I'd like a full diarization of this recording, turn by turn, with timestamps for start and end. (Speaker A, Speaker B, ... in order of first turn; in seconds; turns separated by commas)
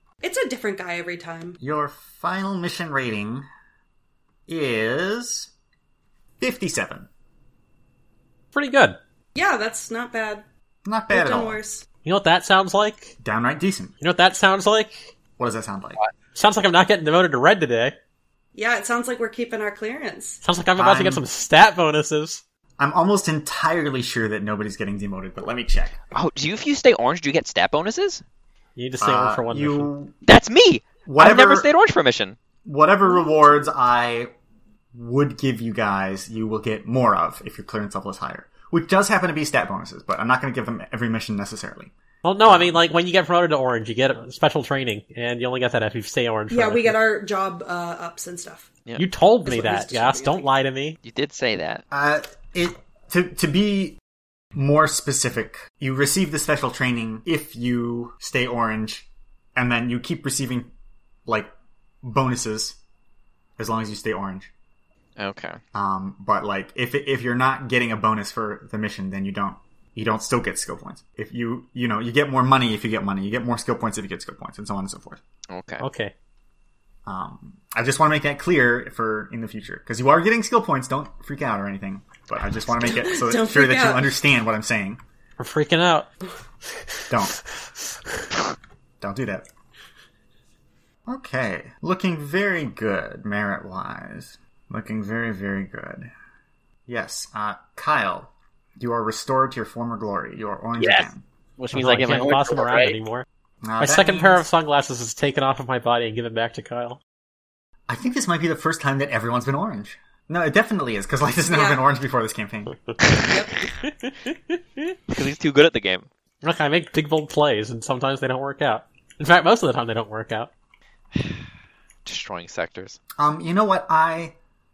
Speaker A: 0.2-1.6, Speaker B: 1.6-3.5, Speaker B: 4.5-5.5, Speaker B: 6.4-7.1, Speaker C: 8.5-9.0, Speaker A: 9.3-10.4, Speaker B: 10.8-11.6, Speaker A: 11.1-11.8, Speaker C: 12.0-13.1, Speaker B: 13.2-13.9, Speaker C: 14.0-15.1, Speaker B: 15.4-16.0, Speaker C: 16.3-17.9, Speaker A: 18.5-20.4, Speaker C: 20.4-22.4, Speaker B: 20.8-21.2, Speaker B: 22.8-26.0, Speaker D: 26.1-28.2, Speaker C: 28.8-29.9, Speaker B: 29.0-30.1, Speaker D: 30.2-32.4, Speaker B: 31.0-31.7, Speaker B: 32.6-34.3, Speaker B: 34.9-41.9, Speaker C: 42.2-47.0, Speaker B: 42.4-42.8, Speaker A: 46.5-48.7, Speaker C: 49.0-51.0, Speaker A: 49.4-50.5, Speaker D: 51.0-51.8, Speaker B: 51.9-54.0, Speaker B: 54.5-60.7, Speaker B: 61.2-61.5, Speaker B: 62.0-62.8, Speaker B: 63.6-64.5, Speaker D: 65.2-65.6, Speaker B: 65.7-75.2, Speaker D: 75.5-75.9, Speaker C: 75.8-76.1, Speaker B: 77.0-85.0, Speaker A: 82.9-84.1, Speaker C: 85.4-86.1, Speaker B: 87.1-87.4, Speaker B: 89.0-89.5, Speaker B: 91.0-96.1, Speaker B: 96.9-101.2, Speaker E: 100.8-103.0, Speaker C: 101.7-103.2, Speaker B: 103.6-104.4, Speaker C: 103.8-107.0, Speaker B: 107.9-112.8, Speaker A: 111.5-111.8, Speaker A: 113.2-113.6, Speaker D: 115.1-116.1, Speaker C: 116.4-120.5, Speaker D: 122.0-123.0, Speaker B: 123.2-124.3